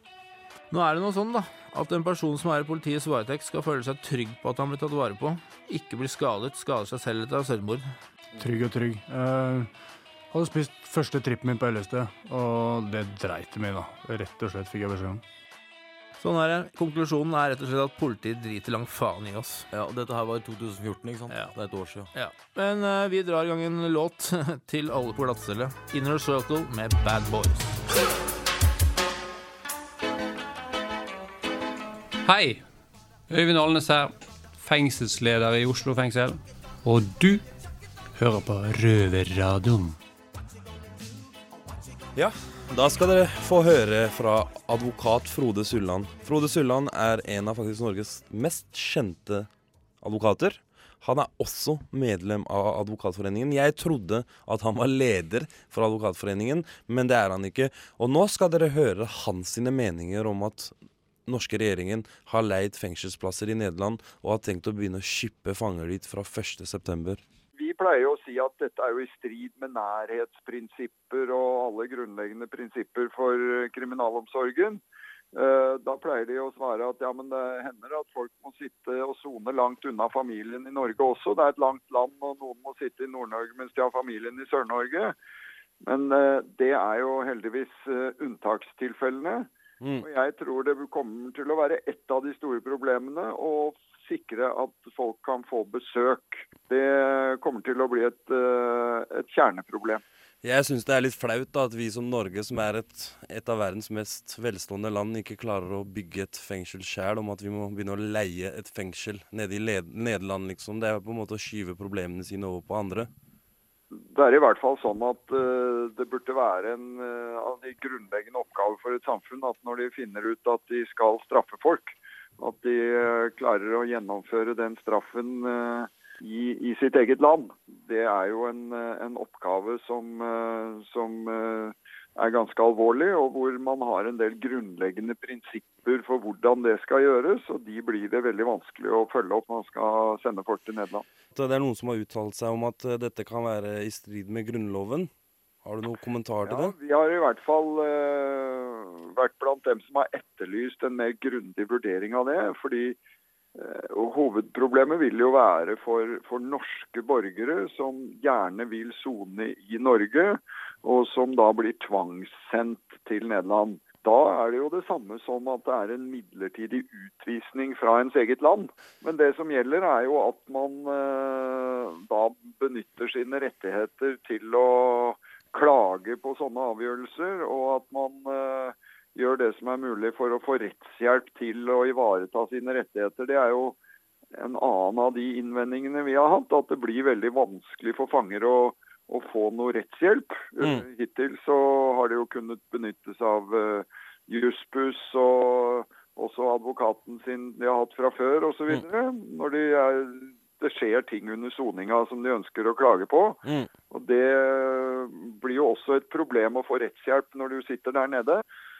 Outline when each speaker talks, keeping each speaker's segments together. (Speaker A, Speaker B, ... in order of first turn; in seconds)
Speaker A: 0.7-7.8, 16.2-19.6, 22.1-27.8
Speaker B: 8.3-9.7, 10.3-15.2
Speaker C: 19.7-22.1
Speaker D: 32.2-32.6, 33.3-37.4, 38.1-40.0
Speaker E: 42.1-49.5, 50.0-60.7, 61.3-67.2, 100.4-113.1, 141.3-145.1, 145.6-146.7, 203.4-203.7
Speaker F: 67.5-74.8, 75.3-85.1, 85.8-89.5, 90.0-100.0, 114.1-141.0, 146.4-153.0, 153.6-183.8, 184.4-203.4, 203.9-208.4